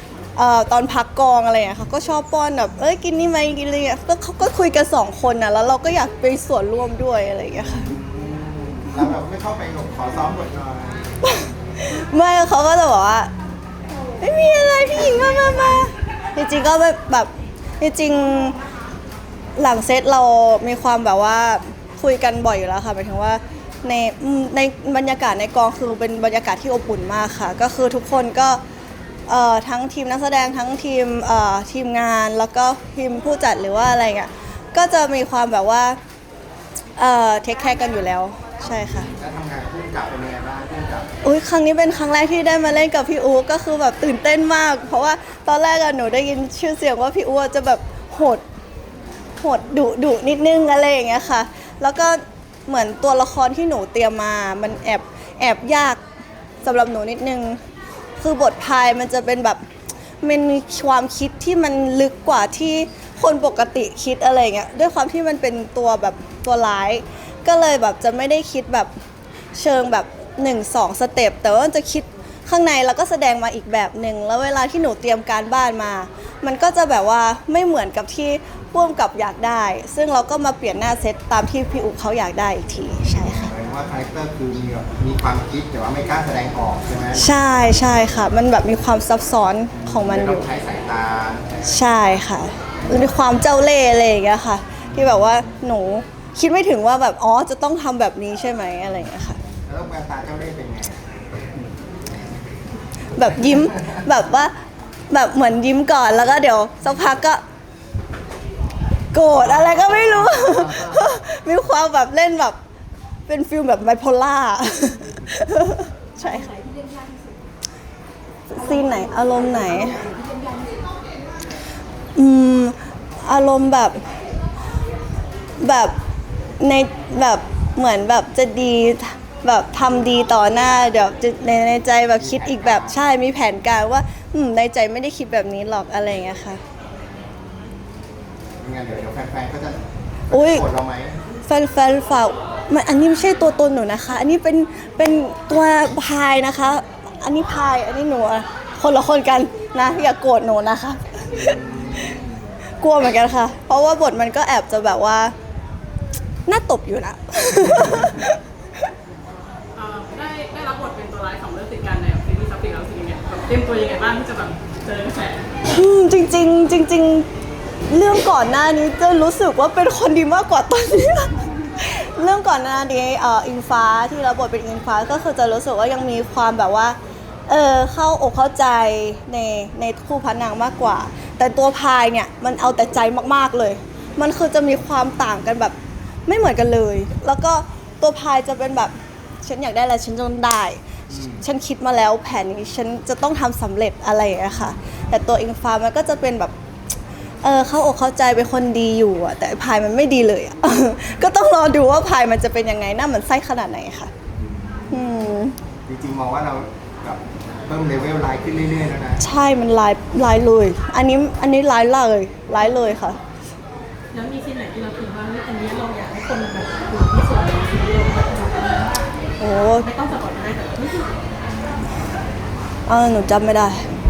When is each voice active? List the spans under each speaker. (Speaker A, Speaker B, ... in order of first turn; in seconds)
Speaker A: 0.3-7.9, 11.2-13.3, 14.2-18.6, 19.6-28.6, 29.3-36.0, 37.0-39.1, 41.2-48.4, 49.4-56.0, 56.6-57.6, 58.2-59.6, 60.2-68.9, 69.5-83.5, 87.1-90.5, 91.7-99.4, 103.2-104.5, 105.1-107.4, 109.1-112.6, 113.3-116.5, 118.5-120.1, 122.2-124.0, 125.6-125.9, 126.6-136.6, 140.3-140.7, 141.5-151.6, 152.8-155.3, 156.5-158.4, 165.6-167.3, 167.9-177.0, 177.5-185.7, 186.3-190.8, 191.4-196.5, 197.4-204.1, 204.9-205.6, 209.2-213.2, 219.4-219.9, 222.8-223.8
Speaker B: 7.6-11.1, 38.7-41.1, 83.2-87.3, 89.8-91.7, 99.6-101.0, 132.2-133.0, 138.6-141.2, 151.4-152.3, 191.1-191.4, 205.9-209.2
Speaker C: 159.7-165.5, 214.1-219.1, 219.8-221.1